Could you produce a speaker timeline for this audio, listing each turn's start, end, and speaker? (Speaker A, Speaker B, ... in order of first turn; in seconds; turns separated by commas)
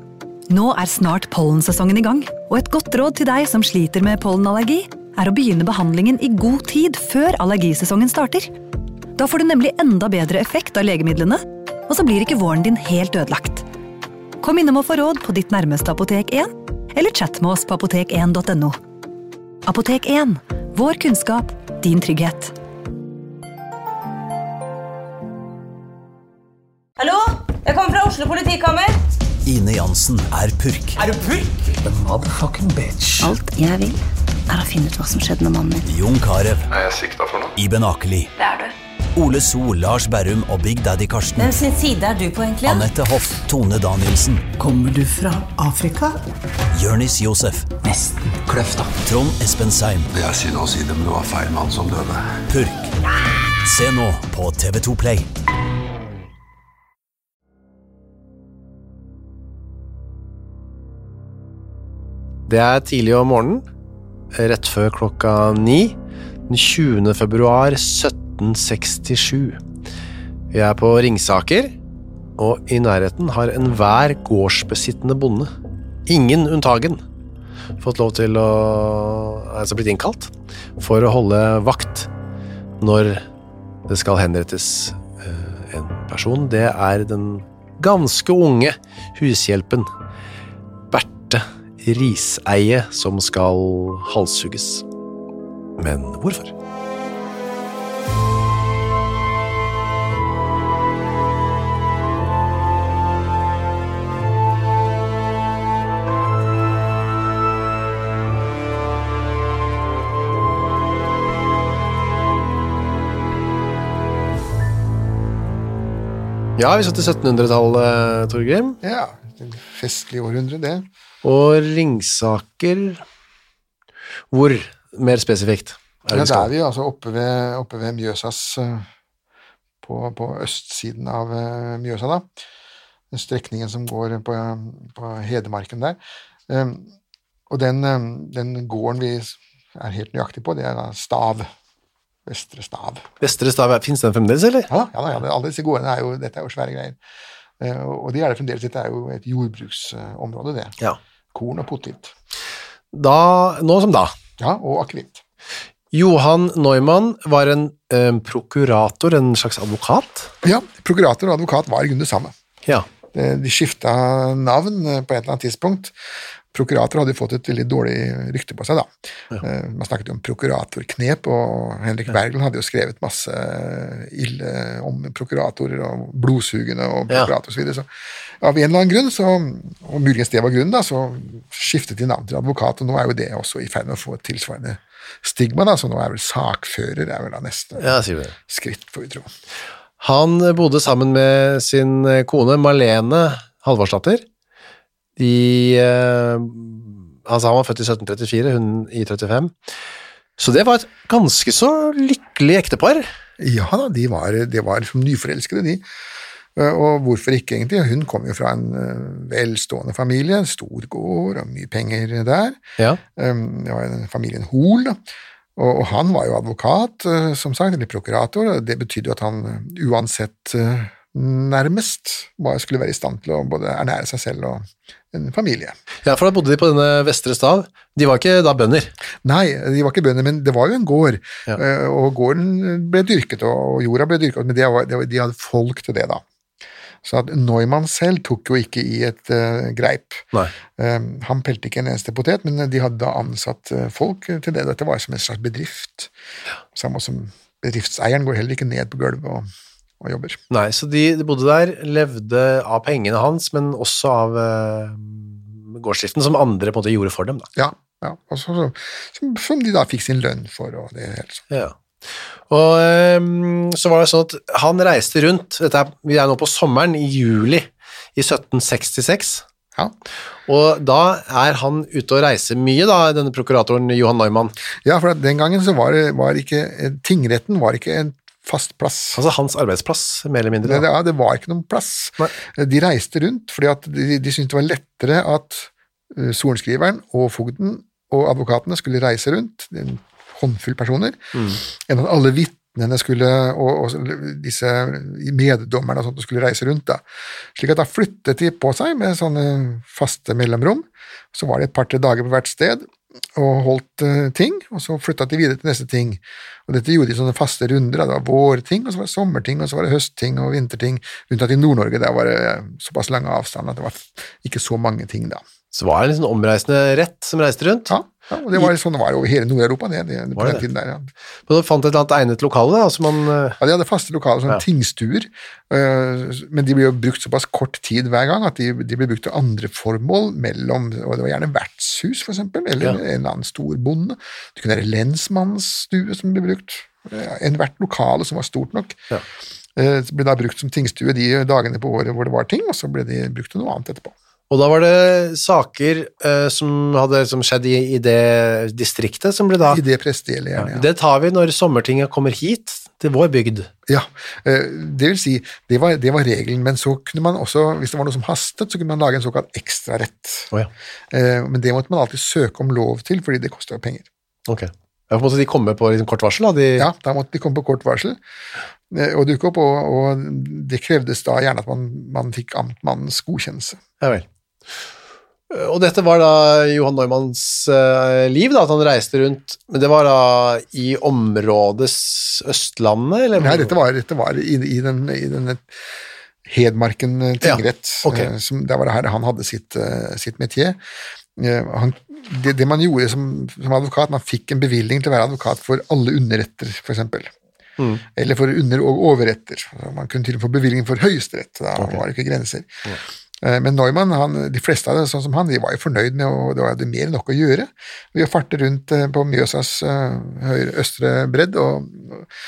Speaker A: 0.5-8.5, Speaker A: 9.2-13.7, Speaker A: 14.4-18.8, Speaker A: 19.6-22.5, Speaker B: 27.0-29.0, Speaker C: 29.4-31.0, Speaker D: 31.0-33.3, Speaker E: 33.2-35.9, Speaker C: 35.9-36.7, Speaker F: 36.7-37.5, Speaker C: 37.6-38.3, Speaker B: 38.4-38.7, Speaker C: 39.1-41.6, Speaker B: 41.4-42.9, Speaker C: 42.6-44.5, Speaker D: 44.6-46.2, Speaker C: 46.7-47.7, Speaker D: 47.8-49.0, Speaker C: 49.0-50.1, Speaker F: 50.1-52.4, Speaker C: 52.5-53.0, Speaker C: 53.6-55.3, Speaker G: 62.5-63.6, Speaker G: 64.3-66.0, Speaker G: 66.5-69.6, Speaker G: 70.5-71.7, Speaker G: 72.4-75.5, Speaker G: 76.1-77.0, Speaker G: 77.8-82.1, Speaker G: 82.8-83.2, Speaker G: 83.9-89.9, Speaker G: 90.9-94.8, Speaker G: 95.8-96.5, Speaker G: 116.6-118.8, Speaker H: 118.8-120.9, Speaker G: 121.2-123.0, Speaker G: 124.3-126.5, Speaker H: 126.1-128.9, Speaker H: 129.8-132.3, Speaker H: 133.1-136.9, Speaker H: 137.5-141.5, Speaker H: 142.3-143.1, Speaker G: 143.2-144.7, Speaker H: 144.7-147.0, Speaker H: 147.6-150.8, Speaker H: 151.3-152.1, Speaker G: 152.9-154.1, Speaker H: 154.4-155.2, Speaker G: 155.9-160.3, Speaker H: 160.4-162.3, Speaker H: 163.1-165.9, Speaker H: 166.5-177.9, Speaker H: 178.4-189.3, Speaker G: 187.8-188.3, Speaker G: 190.0-194.2, Speaker G: 195.2-199.5, Speaker G: 200.4-203.1, Speaker H: 203.4-205.8, Speaker H: 206.6-212.6, Speaker H: 213.2-215.0, Speaker H: 215.6-225.8, Speaker G: 226.1-228.9, Speaker H: 229.2-236.2, Speaker H: 237.0-246.1, Speaker H: 246.8-249.5, Speaker H: 250.0-250.4, Speaker G: 250.5-257.5, Speaker H: 257.6-261.4, Speaker G: 262.5-269.4, Speaker G: 270.5-274.6, Speaker H: 274.9-279.2, Speaker G: 279.1-280.9, Speaker H: 280.6-297.0, Speaker G: 291.4-291.6, Speaker H: 297.6-315.4, Speaker G: 315.7-317.9, Speaker H: 317.9-321.1, Speaker G: 320.4-320.6, Speaker G: 321.5-323.6, Speaker H: 323.6-339.0, Speaker H: 339.8-344.1, Speaker G: 344.5-349.8, Speaker H: 349.7-350.9, Speaker G: 350.6-353.7, Speaker H: 353.9-360.5, Speaker H: 361.1-364.1, Speaker G: 364.5-366.9, Speaker H: 366.8-368.2, Speaker H: 368.9-373.8, Speaker G: 375.5-383.8, Speaker H: 383.4-385.6, Speaker H: 386.5-390.8, Speaker G: 387.4-388.3, Speaker H: 391.4-397.3, Speaker G: 397.8-398.0, Speaker H: 398.2-402.7, Speaker H: 403.4-412.3